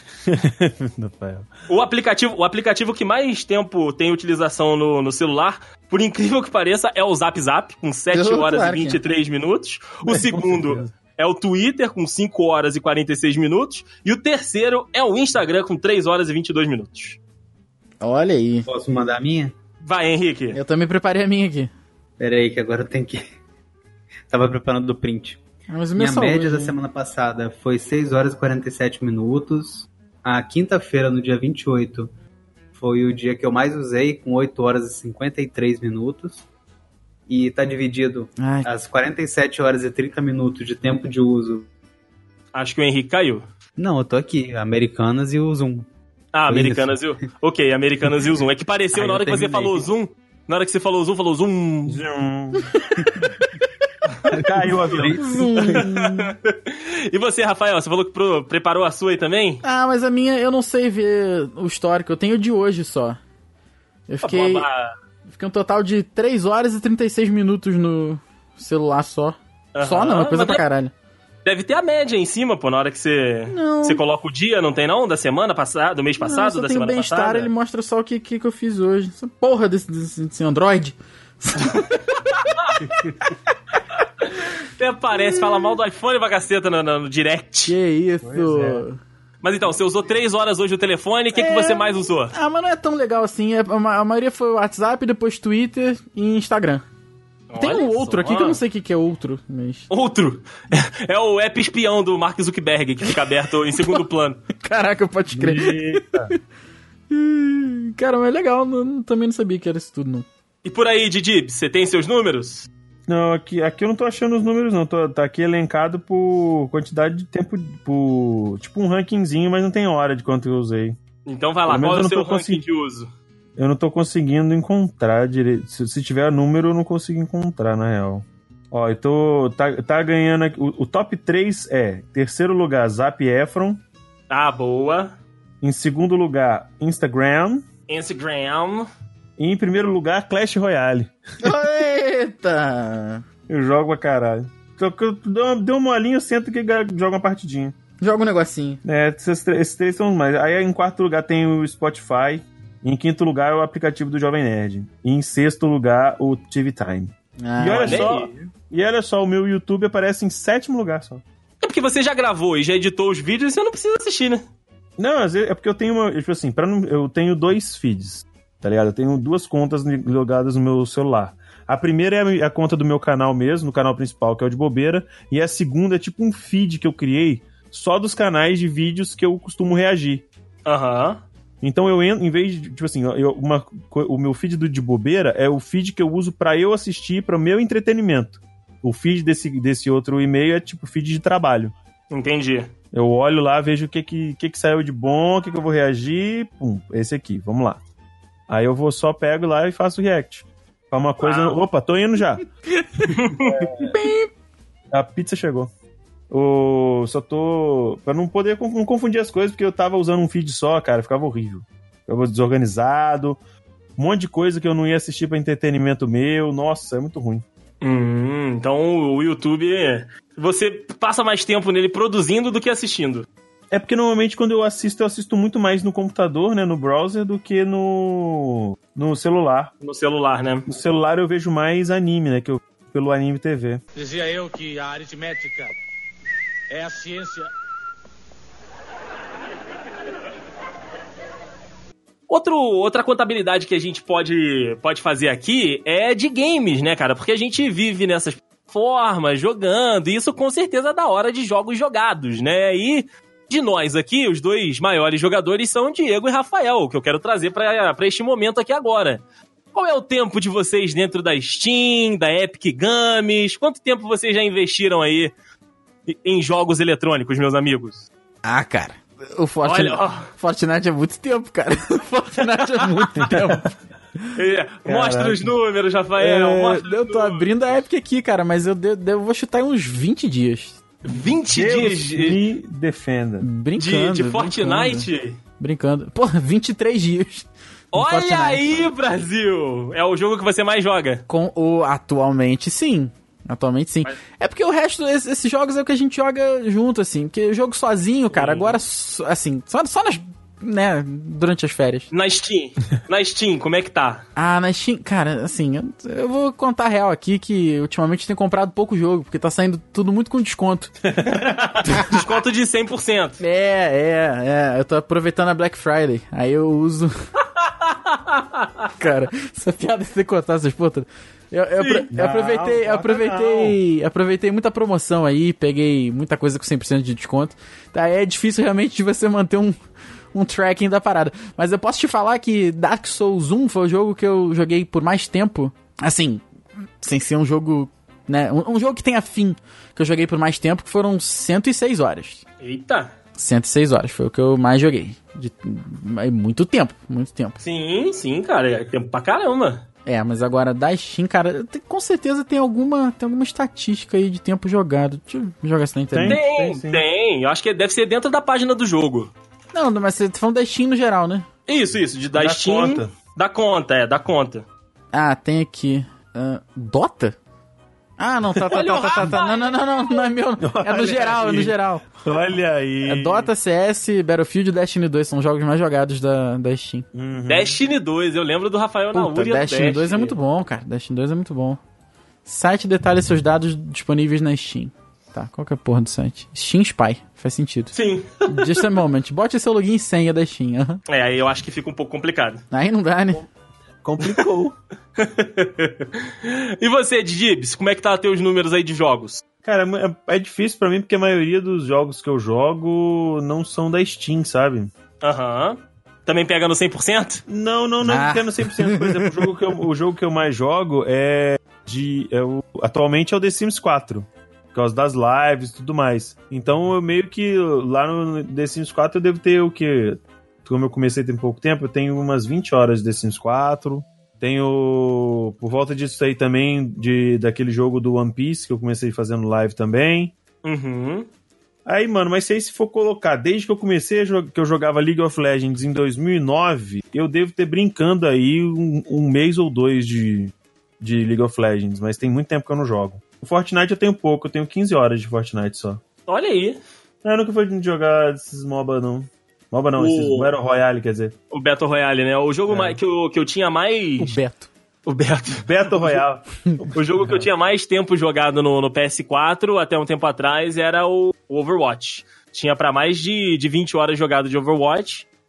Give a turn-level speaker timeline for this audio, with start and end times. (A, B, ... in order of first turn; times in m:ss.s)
0:00.2-0:01.5 A
0:01.7-0:17.2 B
0:08.1-0:09.0 C
0:10.1-0:10.9 A
0:18.0-0:18.7 C
0:18.7-0:19.5 D
0:19.8-0:20.6 B
0:20.5-0:21.7 C
0:22.2-0:23.2 D
0:24.3-0:25.4 D
0:25.7-0:26.7 C
0:26.0-0:32.1 D
0:32.7-0:36.4 D
0:37.3-0:41.7 D
0:38.4-0:38.7 C
0:42.5-0:43.4 B
0:43.8-0:45.9 D
0:46.3-0:52.0 B
0:46.5-0:47.0 D
0:48.9-0:49.9 D
0:51.9-0:52.7 A
0:54.3-0:55.8 A
0:54.3-0:55.8 D
0:55.2-0:56.3 C
0:56.1-0:59.6 B
0:59.6-1:03.2 C
1:04.1-1:04.7 C
1:04.2-1:04.9 B
1:05.3-1:10.9 C
1:09.7-1:10.6 B
1:11.4-1:17.5 B
1:13.5-1:14.0 C
1:16.2-1:22.0 C
1:24.2-1:27.7 B
1:27.7-1:29.0 C
1:28.2-1:28.8 A
1:29.4-1:32.3 B
1:31.4-1:36.8 C
1:37.5-1:38.6 B
1:37.6-1:39.9 C
1:39.9-1:44.4 B
1:44.6-1:46.3 C
1:45.3-1:46.3 A
1:47.1-1:50.2 C
1:50.6-1:52.7 B
1:53.1-2:01.0 A
2:01.2-2:03.1 B
2:01.6-2:02.6 A
2:03.6-2:13.8 A
2:14.3-2:15.1 B
2:15.6-2:17.6 A
2:17.9-2:18.9 B
2:19.4-2:21.2 A
2:21.4-2:23.2 C
2:23.5-2:27.7 A
2:28.0-2:28.8 C
2:28.8-2:41.2 A
2:37.4-2:38.1 C
2:37.7-2:38.3 B
2:41.6-2:44.4 B
2:45.0-3:00.2 A
3:00.6-3:01.2 B
3:01.6-3:11.7 A
3:12.1-3:12.7 B
3:12.9-3:17.8 A
3:18.5-3:22.5 A
3:21.2-3:21.6 B
3:23.1-3:23.6 B
3:23.3-3:24.0 A
3:23.8-3:24.3 C
3:24.9-3:25.7 A
3:26.3-3:33.4 A
3:34.0-3:37.4 A
3:37.8-3:43.3 B
3:43.7-3:49.7 A
3:49.8-3:50.6 B
3:50.7-3:53.8 A
3:53.9-3:55.7 E
3:56.7-3:57.5 E
4:02.3-4:19.2 B
4:19.7-4:25.3 B
4:26.1-4:28.1 B
4:28.4-4:33.7 C
4:29.6-4:30.3 B
4:33.2-4:33.7 A
4:34.3-4:37.5 B
4:34.8-4:35.5 A
4:36.2-4:40.8 C
4:41.0-4:42.4 B
4:41.5-4:43.4 A
4:43.4-4:45.1 C
4:43.8-4:45.4 B
4:45.6-4:48.8 C
4:47.9-4:51.2 B
4:51.3-5:02.1 C
4:58.3-4:58.8 B
5:02.1-5:04.2 B
5:04.4-5:11.0 C
5:11.0-5:12.1 A
5:11.9-5:13.4 B
5:13.4-5:17.1 C
5:19.0-5:29.8 C
5:21.8-5:22.1 B
5:22.1-5:23.8 A
5:30.3-5:36.4 C
5:37.0-5:42.4 C
5:42.6-5:43.1 B
5:43.4-5:47.6 C
5:47.6-5:49.8 B
5:50.0-5:56.4 C
5:56.1-5:57.0 A
5:56.2-5:59.3 B
5:59.7-6:01.5 C
6:01.7-6:04.6 B
6:02.3-6:03.1 A
6:05.1-6:07.4 C
6:08.2-6:12.0 C
6:08.7-6:10.1 B
6:10.6-6:13.5 A
6:13.0-6:17.1 C
6:17.1-6:17.8 A
6:17.5-6:20.3 B
6:19.1-6:21.8 C
6:22.4-6:27.9 C
6:27.9-6:28.8 B
6:28.5-6:31.0 C
6:31.1-6:32.6 B
6:32.7-6:33.5 C
6:34.0-6:34.7 A
6:35.2-6:39.4 B
6:39.6-6:44.9 A
6:45.2-6:47.4 B
6:47.5-7:10.3 A
6:48.0-6:49.4 C
7:10.6-7:11.3 B
7:11.8-7:26.0 A
7:26.3-7:26.8 B
7:27.2-7:31.3 A
7:30.0-7:30.5 B
7:31.5-7:34.4 B
7:32.7-7:33.0 A
7:34.2-7:34.7 C
7:35.0-7:36.2 B
7:35.5-7:37.5 A
7:36.9-7:45.3 B